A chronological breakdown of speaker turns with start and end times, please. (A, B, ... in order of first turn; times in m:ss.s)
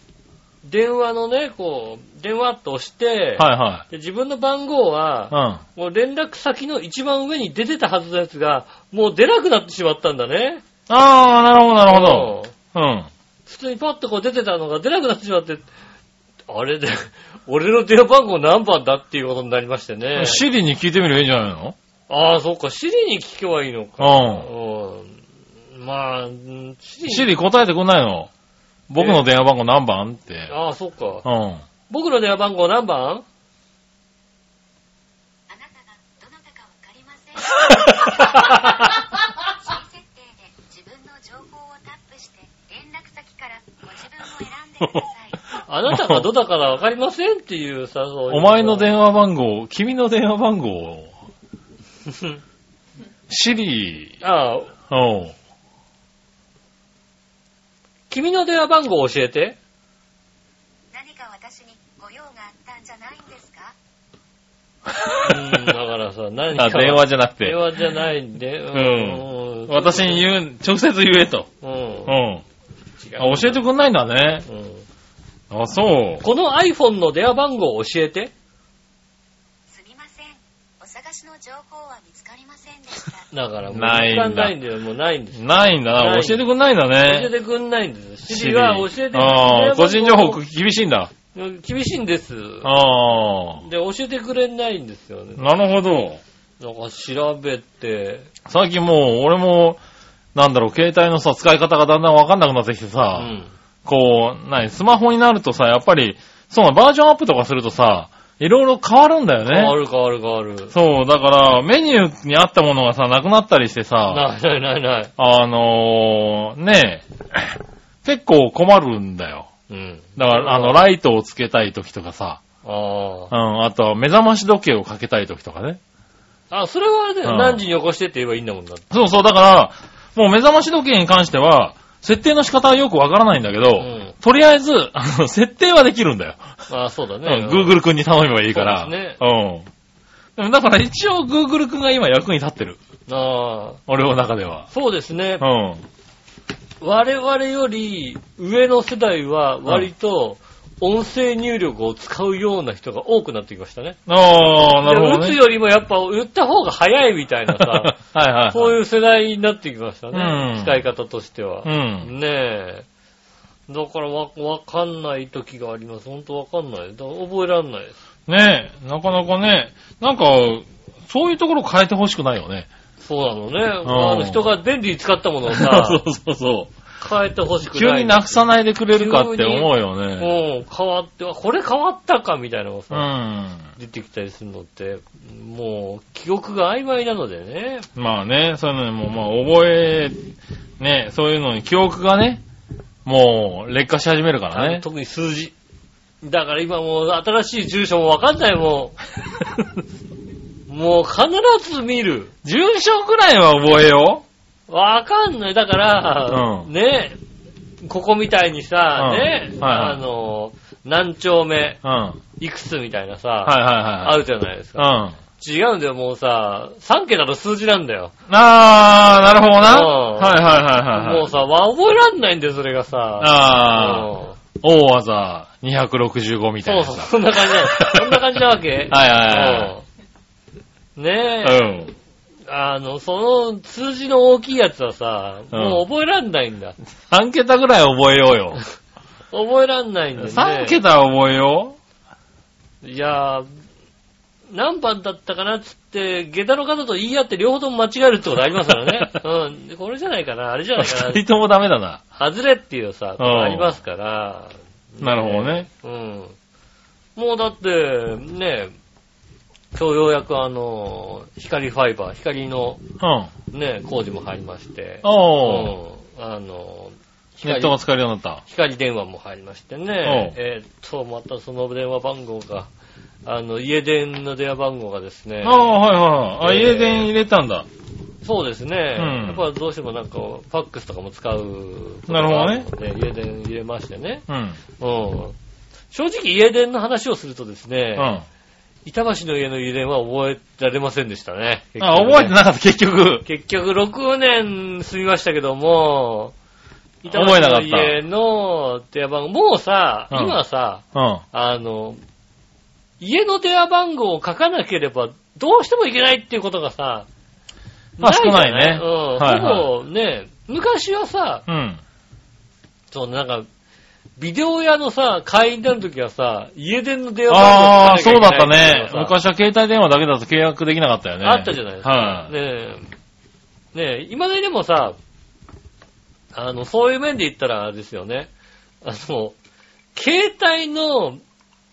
0:00.6-0:10.6 A
0:03.4-0:03.8 B
0:05.3-0:05.6 B
0:10.9-0:13.1 B
0:11.9-0:12.5 A
0:13.4-0:15.6 A
0:16.5-0:20.4 A
0:20.1-0:21.8 B
0:22.1-0:25.2 A
0:24.0-0:24.5 B
0:25.7-0:27.3 A
0:27.1-0:28.3 B
0:28.9-0:30.5 B
0:30.5-0:31.2 A
0:31.2-0:31.6 B
0:31.9-0:33.2 A
0:35.5-0:45.4 C
0:37.7-0:38.0 B
0:44.8-0:45.1 B
0:45.7-0:48.9 A
0:45.9-0:46.3 B
0:48.3-0:51.1 B
0:52.1-0:52.4 A
0:53.3-0:54.2 B
0:54.2-0:54.7 A
0:54.9-0:55.3 B
0:58.1-0:59.6 A
1:00.9-1:03.7 C
1:04.9-1:05.7 B
1:05.2-1:10.2 A
1:06.5-1:07.6 B
1:08.7-1:11.5 B
1:11.6-1:12.2 A
1:12.1-1:12.4 B
1:13.0-1:13.6 A
1:13.2-1:14.4 B
1:14.5-1:14.8 A
1:15.5-1:16.2 B
1:16.2-1:18.3 A
1:19.7-1:23.3 C
1:23.3-1:26.4 A
1:23.7-1:24.6 B
1:25.3-1:27.3 B
1:27.0-1:30.4 A
1:28.3-1:31.1 B
1:31.3-1:32.7 A
1:32.6-1:33.6 B
1:33.6-1:35.5 A
1:35.4-1:36.2 B
1:36.6-1:38.3 A
1:38.4-1:39.8 B
1:40.3-1:43.3 B
1:43.1-1:43.5 A
1:43.8-1:49.8 B
1:49.4-1:50.7 A
1:50.7-1:54.2 B
1:54.1-1:55.1 A
1:55.2-1:59.5 B
1:59.7-2:00.8 A
2:00.2-2:02.4 B
2:02.6-2:03.3 A
2:03.3-2:05.8 B
2:06.5-2:08.8 A
2:07.2-2:07.6 B
2:08.9-2:16.4 B
2:13.8-2:14.1 A
2:16.7-2:17.8 A
2:17.2-2:19.7 B
2:18.5-2:19.2 A
2:20.4-2:22.8 B
2:23.1-2:23.8 A
2:23.9-2:24.7 B
2:24.7-2:25.4 A
2:25.4-2:25.8 B
2:26.8-2:34.0 A
2:34.1-2:35.4 B
2:34.6-2:38.0 A
2:37.5-2:38.8 B
2:38.5-2:42.8 A
2:40.1-2:40.8 B
2:41.6-2:42.1 B
2:43.7-2:48.0 A
2:48.3-2:52.7 B
2:53.0-2:56.0 A
2:53.8-2:54.5 B
2:55.5-2:56.7 B
2:57.0-3:03.1 A
2:57.7-3:00.3 B
3:02.9-3:03.7 B
3:03.8-3:07.9 A
3:08.0-3:10.2 B
3:10.8-3:12.4 B
3:13.0-3:14.8 B
3:14.5-3:15.5 A
3:16.2-3:19.0 A
3:20.7-3:22.3 A
3:22.4-3:24.2 B
3:24.7-3:27.2 A
3:26.3-3:26.7 B
3:27.8-3:31.8 A
3:29.0-3:30.0 B
3:31.8-3:32.2 B
3:32.4-3:38.1 A
3:33.4-3:34.2 B
3:34.8-3:35.2 B
3:38.3-3:41.3 B
3:39.6-3:44.4 A
3:43.2-3:48.4 B
3:46.6-3:49.8 A
3:48.9-3:49.7 B
3:51.0-3:51.7 A
3:51.4-3:51.9 B
3:52.5-3:56.8 A
3:55.5-3:55.8 B
3:57.1-3:58.6 B
3:59.3-4:00.8 A
4:00.2-4:01.8 B
4:02.8-4:03.5 A
4:04.5-4:11.2 A
4:10.8-4:12.0 B
4:12.1-4:16.4 A
4:13.2-4:13.7 B
4:15.0-4:15.7 B
4:17.2-4:18.7 A
4:19.7-4:22.8 A
4:23.0-4:23.3 B
4:23.5-4:27.8 A
4:25.0-4:25.7 B
4:27.4-4:28.4 B
4:28.5-4:32.7 A
4:30.0-4:30.4 B
4:33.2-4:35.8 A
4:35.4-4:37.7 B
4:36.4-4:37.1 A
4:38.2-4:44.2 A
4:39.0-4:39.4 B
4:42.1-4:42.6 B
4:44.3-4:44.6 B
4:44.8-4:45.4 A
4:45.9-4:48.1 A
4:48.0-4:48.2 B
4:48.8-4:52.3 A
4:51.8-4:53.2 B
4:53.2-4:56.3 A
4:57.0-5:02.0 A
4:57.1-4:58.0 B
5:00.1-5:00.4 B
5:00.9-5:01.2 B
5:03.0-5:07.1 A
5:08.0-5:11.4 A
5:08.0-5:09.7 B
5:11.5-5:11.8 B
5:12.9-5:13.5 A
5:14.2-5:19.1 A
5:17.3-5:22.3 B
5:21.2-5:22.9 A
5:23.7-5:25.0 A
5:26.3-5:28.3 A
5:28.8-5:29.4 A
5:29.9-5:31.2 A